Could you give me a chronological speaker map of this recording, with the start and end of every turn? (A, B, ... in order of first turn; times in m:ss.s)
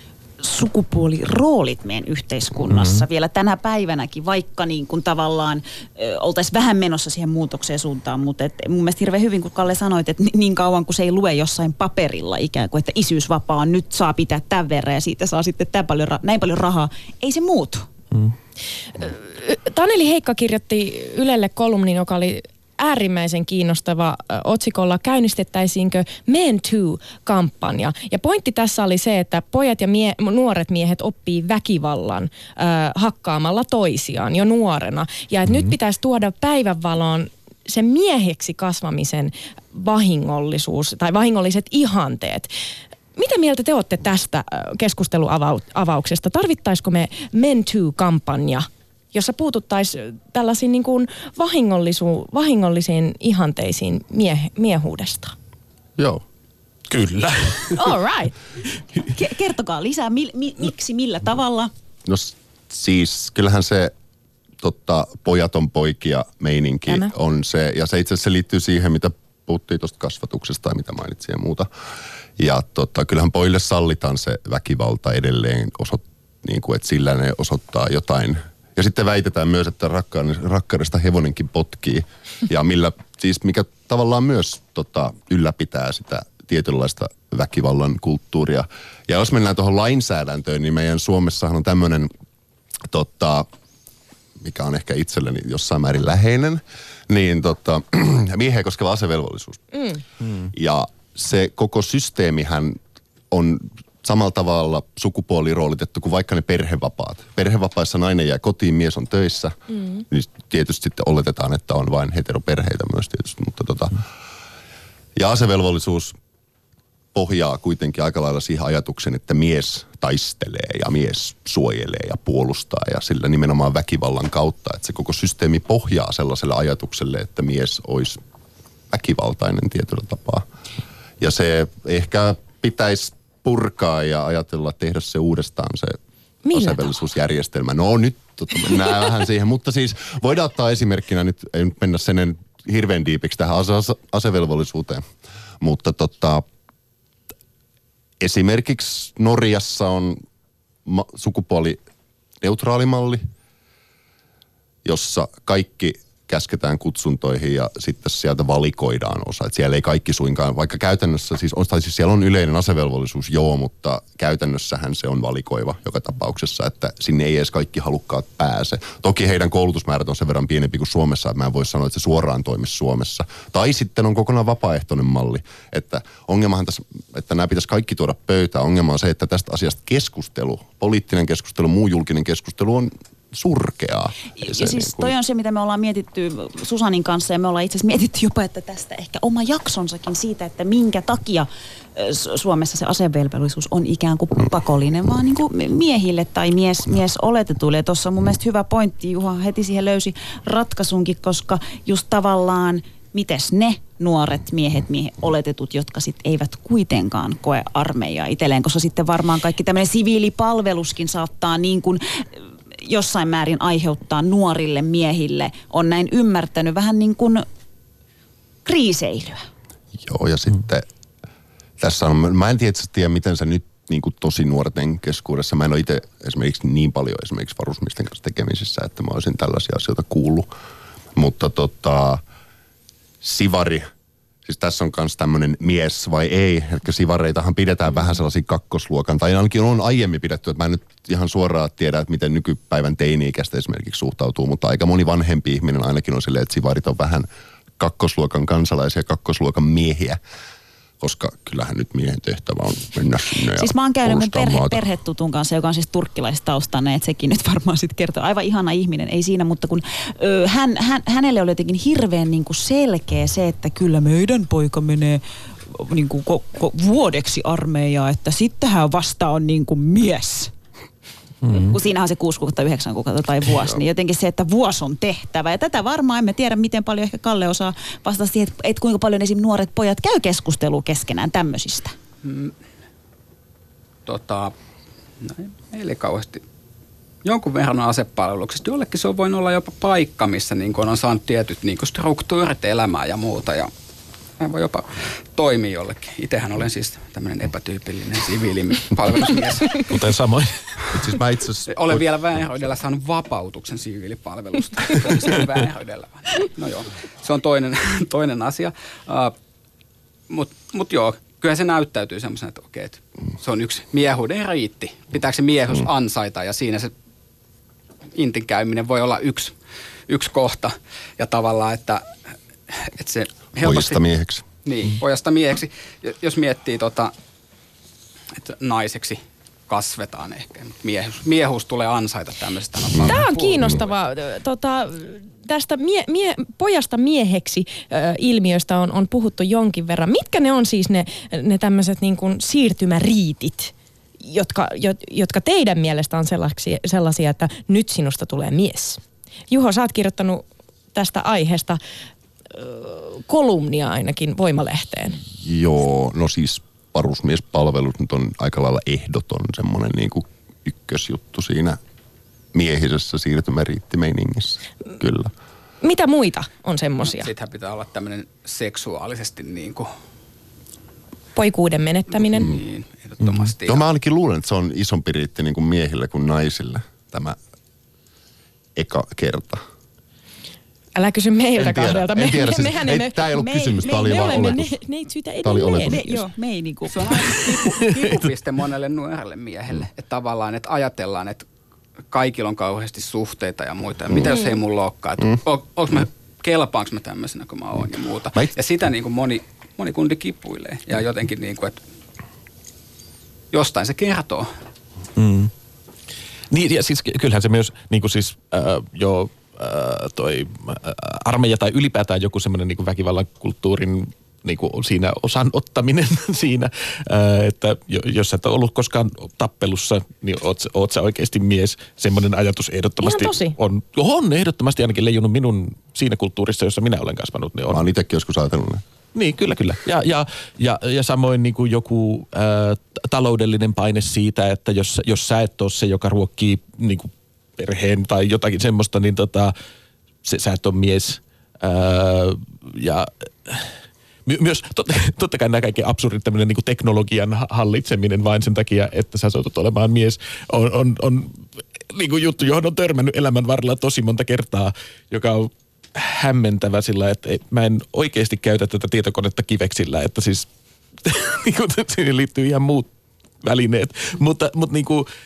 0:00.4-0:17.9 A
0:02.7-0:03.1 B
0:19.0-0:42.5 C
0:43.2-0:55.4 C
0:56.0-0:56.2 D
0:56.9-0:57.8 B
0:57.8-0:58.3 C
0:59.1-1:01.7 A
1:02.0-1:03.9 D
1:04.6-1:11.7 D
1:12.4-1:32.1 D
1:32.9-1:33.5 D
1:34.4-1:39.6 D
1:40.4-1:42.8 D
1:43.3-1:49.6 D
1:50.1-1:54.0 D
1:55.2-1:56.2 D
1:57.1-2:08.2 D
2:08.9-2:10.5 D
2:11.2-2:16.0 D
2:16.4-2:16.9 C
2:16.5-2:25.0 D
2:25.6-2:26.5 D
2:28.2-2:30.2 D
2:30.9-2:31.8 D
2:32.4-2:33.2 D
2:34.8-3:05.1 D
3:04.4-3:32.3 A
3:32.8-3:37.5 A
3:38.6-3:39.5 A
3:40.0-3:40.9 D
3:41.8-3:50.5 D
3:51.2-3:52.2 D
3:53.2-3:53.9 D
3:54.4-4:07.3 D
4:07.8-4:10.2 D
4:11.0-4:14.8 D
4:13.5-4:30.5 A
4:31.4-4:31.8 B
4:31.5-4:41.9 A
4:42.2-4:42.5 E
4:44.1-4:44.5 E
4:45.2-4:46.4 E
4:47.2-4:53.7 E
4:54.4-4:59.8 E
4:59.8-5:01.0 B
5:00.9-5:02.0 D
5:01.7-5:09.3 E
5:10.3-5:16.9 E
5:18.2-5:19.5 E
5:20.1-5:22.1 E
5:22.7-5:24.0 E
5:23.6-5:24.4 D
5:24.6-5:27.1 E
5:28.3-5:33.8 E
5:33.0-5:33.8 D
5:33.0-5:43.7 C
5:44.2-5:51.8 C
5:52.5-5:55.2 C
5:55.3-6:01.8 D
6:02.5-6:05.3 D
6:05.8-6:07.3 C
6:07.0-6:09.9 E
6:11.4-6:12.5 C
6:12.3-6:13.8 E
6:13.2-6:13.5 B
6:13.7-6:17.4 D
6:18.8-6:19.6 D
6:21.0-6:26.2 C
6:21.6-6:24.8 D
6:23.4-6:24.6 A
6:25.4-6:26.2 D
6:25.8-6:27.8 A
6:26.9-6:31.5 E
6:27.8-6:28.2 B
6:32.1-6:41.8 E
6:43.5-6:44.5 E
6:45.2-6:45.5 B
6:46.5-7:07.8 B
7:03.0-7:03.6 C
7:07.7-7:08.8 D
7:09.1-7:19.5 B
7:20.2-7:40.5 B
7:41.0-7:42.9 B
7:43.4-7:45.1 B